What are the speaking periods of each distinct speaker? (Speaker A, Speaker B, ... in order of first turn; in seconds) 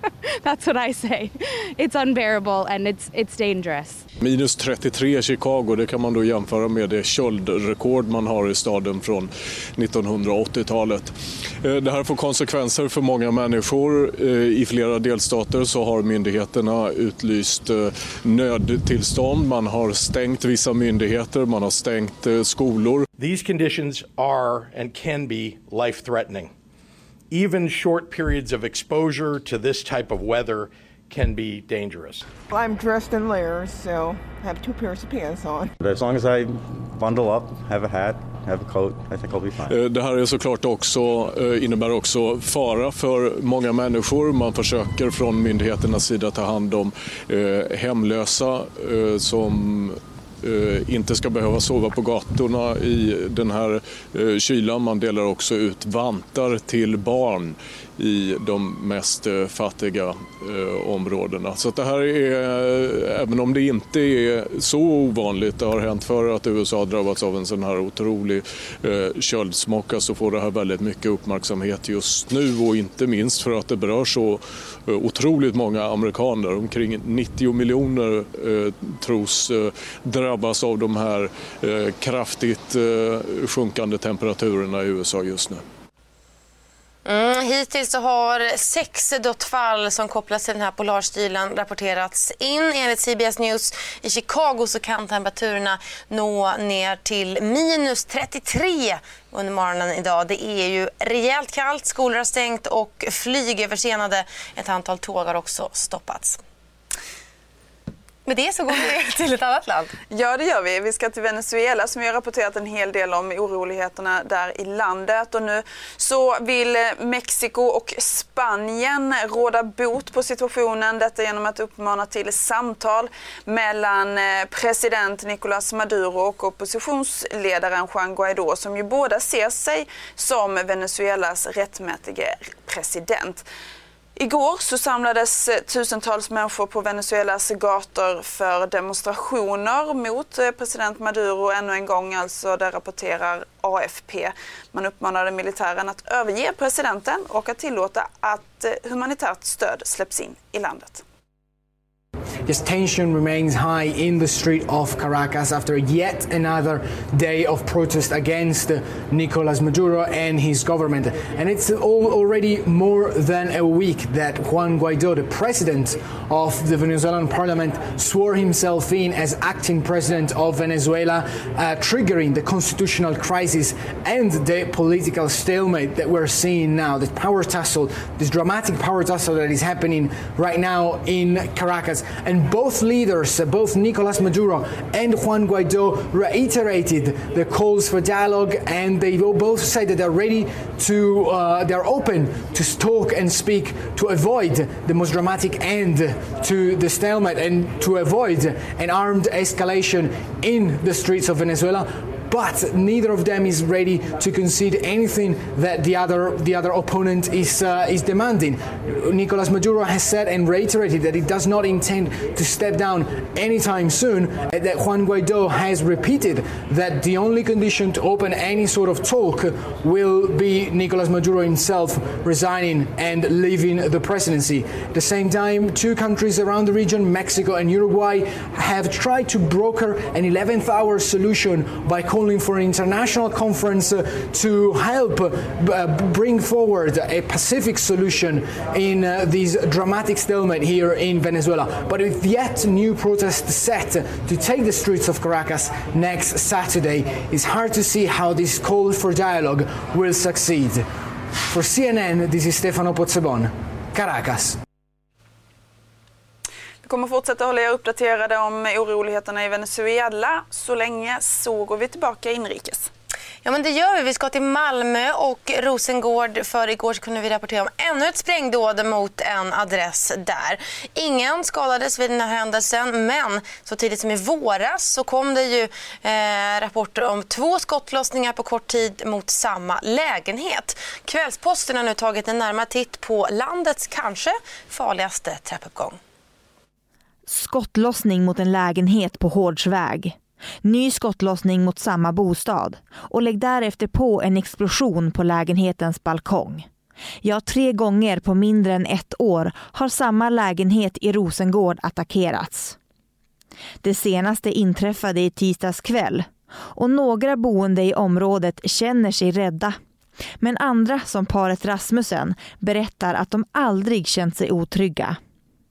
Speaker A: 0.4-4.0
Speaker B: 4.2-23.1, 39.6-85.6
Speaker C: 23.2-26.5, 27.3-32.2
Speaker D: 32.5-35.7
Speaker E: 35.8-39.7
Speaker F: 87.0-106.4, 108.2-109.9, 263.4-286.0
Speaker G: 110.1-133.4, 134.2-151.0, 256.8-262.9
Speaker H: 152.5-250.8, 251.5-254.6
Speaker I: 287.3-296.6, 297.2-302.8, 303.8-309.8, 310.4-315.2